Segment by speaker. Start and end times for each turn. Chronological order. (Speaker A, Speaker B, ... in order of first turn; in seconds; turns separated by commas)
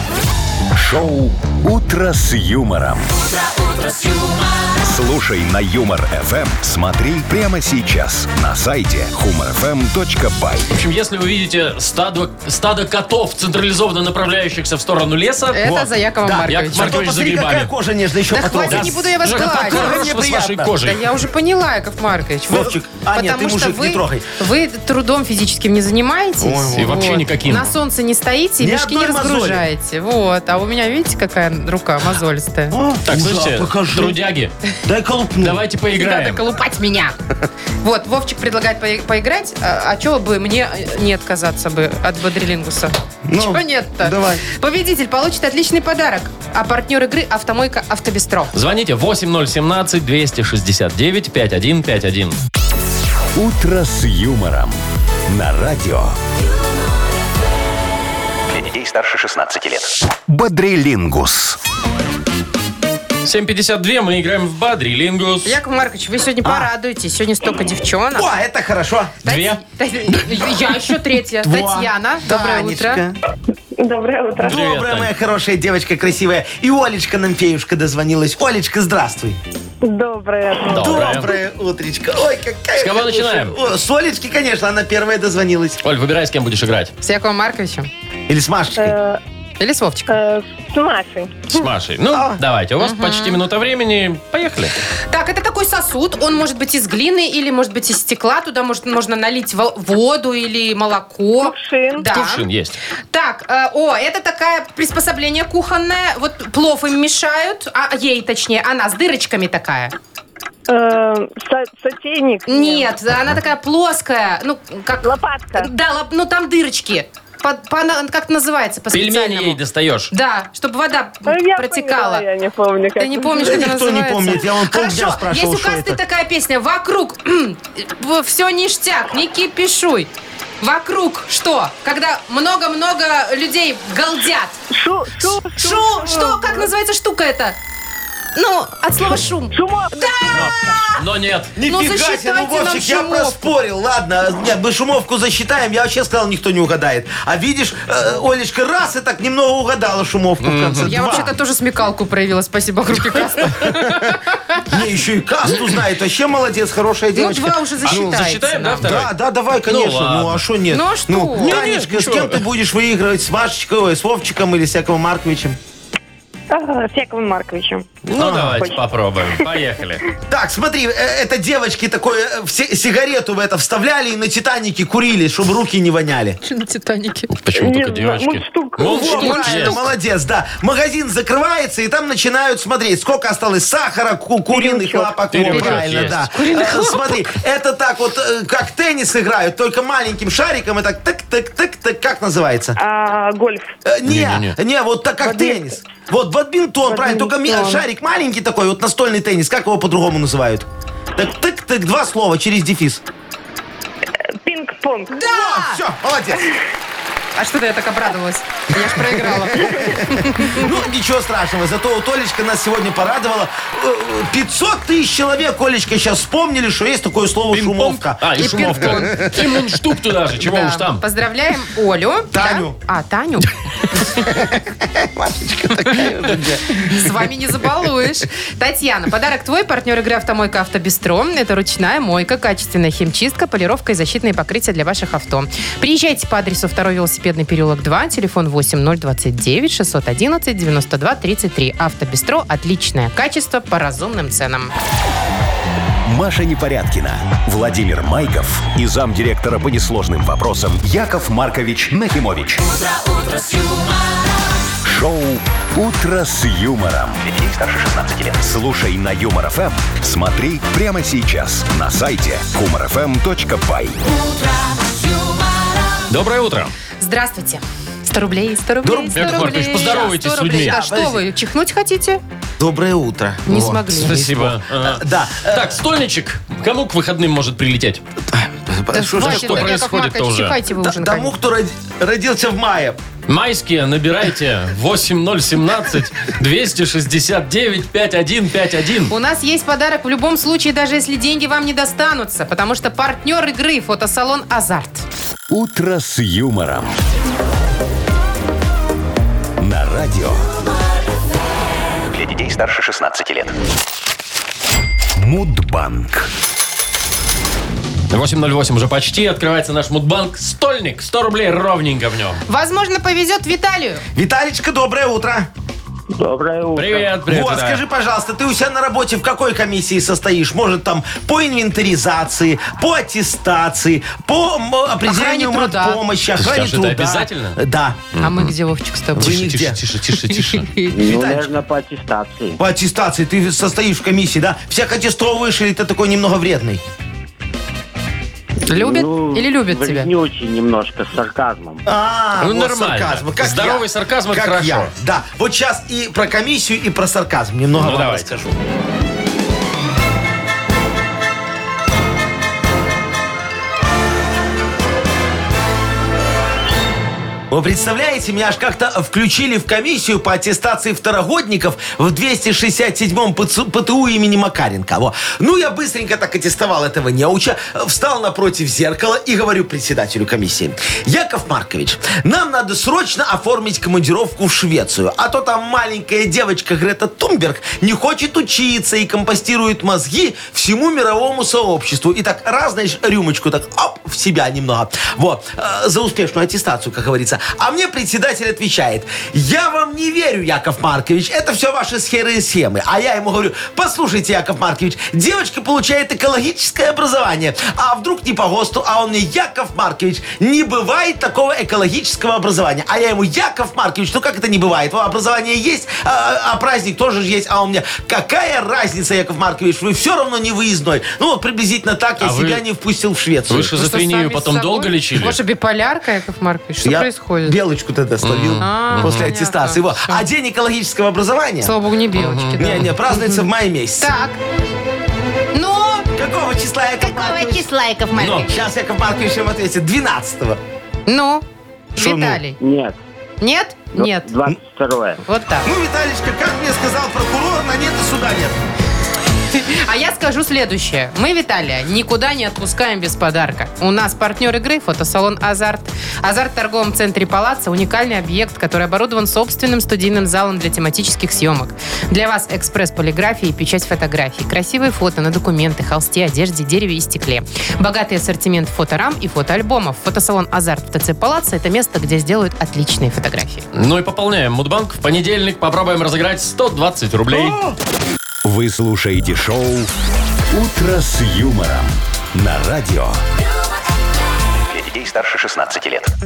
Speaker A: 0.7-3.1, Speaker B: 3.2-4.8, Speaker A: 4.8-10.7, Speaker C: 10.7-15.7, Speaker D: 15.5-17.0, Speaker E: 15.6-20.7, Speaker C: 16.5-17.7, Speaker D: 18.3-32.8, Speaker C: 18.6-21.0, Speaker E: 22.5-24.3, Speaker E: 26.4-27.2, Speaker C: 26.8-27.7, Speaker E: 28.6-29.6, Speaker E: 32.7-34.2, Speaker C: 33.1-34.5, Speaker E: 34.9-35.6, Speaker C: 35.4-36.4, Speaker D: 36.0-37.1, Speaker D: 37.8-48.5, Speaker E: 43.3-44.4, Speaker C: 48.5-52.4, Speaker A: 53.4-56.2, Speaker B: 58.5-59.9, Speaker A: 60.3-61.6, Speaker C: 63.2-65.5, Speaker D: 65.4-68.3, Speaker E: 68.1-69.2, Speaker D: 69.2-73.0, Speaker C: 69.2-69.6, Speaker E: 71.4-73.2, Speaker F: 73.8-74.6, Speaker E: 74.4-79.4, Speaker C: 74.4-75.1, Speaker F: 79.8-81.2, Speaker C: 80.7-81.3, Speaker E: 80.7-85.8, Speaker C: 82.8-83.6, Speaker C: 85.8-86.9, Speaker D: 87.0-87.9, Speaker E: 88.3-89.0, Speaker F: 88.8-89.2, Speaker D: 89.6-90.1, Speaker F: 90.1-91.7, Speaker C: 91.5-94.8, Speaker E: 92.1-92.4, Speaker D: 92.8-93.4, Speaker D: 95.1-102.5, Speaker F: 101.4-102.0, Speaker C: 102.1-102.8, Speaker D: 103.1-109.9, Speaker F: 110.7-112.9, Speaker D: 112.5-122.2, Speaker F: 115.0-115.7, Speaker C: 118.9-120.1, Speaker F: 121.3-123.7, Speaker D: 123.0-130.1, Speaker E: 123.4-126.0, Speaker D: 130.6-134.6, Speaker F: 134.7-136.7, Speaker D: 135.5-137.6, Speaker D: 138.3-141.0, Speaker F: 139.5-140.8, Speaker C: 140.3-141.5, Speaker E: 141.6-151.3, Speaker D: 141.7-143.5, Speaker C: 150.4-151.2, Speaker D: 150.8-154.7, Speaker E: 153.6-153.9, Speaker E: 154.7-158.2, Speaker D: 157.1-158.9, Speaker C: 157.9-159.1, Speaker E: 158.8-165.6, Speaker C: 159.7-160.4, Speaker D: 160.7-161.6, Speaker C: 161.4-162.4, Speaker F: 166.5-167.9, Speaker C: 168.1-170.1, Speaker E: 168.2-168.6, Speaker E: 170.3-176.4, Speaker D: 176.4-177.3, Speaker C: 177.3-179.8, Speaker F: 177.5-179.6, Speaker E: 178.9-192.8, Speaker D: 179.0-179.8, Speaker F: 184.5-185.2, Speaker C: 185.3-186.2, Speaker D: 185.5-187.1, Speaker F: 192.8-193.7, Speaker E: 193.9-203.0, Speaker C: 194.1-194.6, Speaker F: 195.2-195.7, Speaker F: 196.8-197.8, Speaker F: 204.4-205.2, Speaker D: 205.1-205.8, Speaker E: 205.2-206.5, Speaker D: 207.4-210.7, Speaker E: 209.2-219.4, Speaker C: 217.5-221.0, Speaker D: 218.4-219.3, Speaker D: 220.4-223.5, Speaker E: 222.3-222.8, Speaker E: 224.0-227.1, Speaker D: 226.7-244.7, Speaker A: 246.1-252.6, Speaker B: 252.6-254.5, Speaker A: 254.8-257.2, Speaker B: 257.3-258.4, Speaker A: 258.4-264.0, Speaker B: 264.1-266.1, Speaker C: 266.1-266.7, Speaker D: 267.0-272.2, Speaker E: 268.8-271.2, Speaker C: 269.1-270.8, Speaker E: 272.6-275.8, Speaker D: 273.5-274.4, Speaker C: 273.5-278.0, Speaker E: 278.3-279.8, Speaker D: 278.9-281.4, Speaker C: 279.2-280.6, Speaker E: 280.7-283.0, Speaker C: 283.3-289.1, Speaker D: 289.1-295.1, Speaker A: 295.5-297.0, Speaker A: 299.6-300.5, Speaker B: 302.1-303.5, Speaker A: 305.2-306.3, Speaker C: 308.1-312.4, Speaker D: 312.5-314.0, Speaker E: 314.1-315.5, Speaker G: 316.1-317.2, Speaker C: 316.8-317.8, Speaker E: 317.2-328.0, Speaker D: 325.1-326.0, Speaker C: 326.4-327.6, Speaker C: 328.1-328.5, Speaker D: 328.2-329.5, Speaker C: 329.1-330.7, Speaker E: 329.2-329.8, Speaker D: 330.1-331.0, Speaker G: 330.9-332.6, Speaker E: 331.0-331.5, Speaker E: 332.6-336.8, Speaker D: 338.7-340.1, Speaker G: 338.7-341.8, Speaker E: 341.9-348.6, Speaker C: 342.4-344.9, Speaker C: 347.7-348.4, Speaker E: 357.5-413.7, Speaker C: 412.2-412.6, Speaker C: 413.5-415.4, Speaker D: 413.7-417.6, Speaker E: 416.8-421.7, Speaker C: 418.2-419.3, Speaker D: 418.6-420.2, Speaker D: 421.6-423.5, Speaker C: 422.1-422.9, Speaker E: 422.6-424.1, Speaker D: 424.0-424.4, Speaker D: 425.5-426.1, Speaker E: 426.2-427.7, Speaker D: 427.0-428.6, Speaker C: 428.2-428.5, Speaker E: 428.4-430.6, Speaker D: 431.1-431.4, Speaker D: 432.0-432.6, Speaker E: 432.0-432.4, Speaker G: 432.6-433.0, Speaker D: 433.4-434.3, Speaker G: 433.9-435.2, Speaker D: 435.2-435.7, Speaker E: 435.6-438.6, Speaker D: 439.5-463.7, Speaker C: 463.7-467.6, Speaker E: 467.3-467.8, Speaker A: 468.4-469.9, Speaker A: 470.5-473.2, Speaker B: 474.7-476.1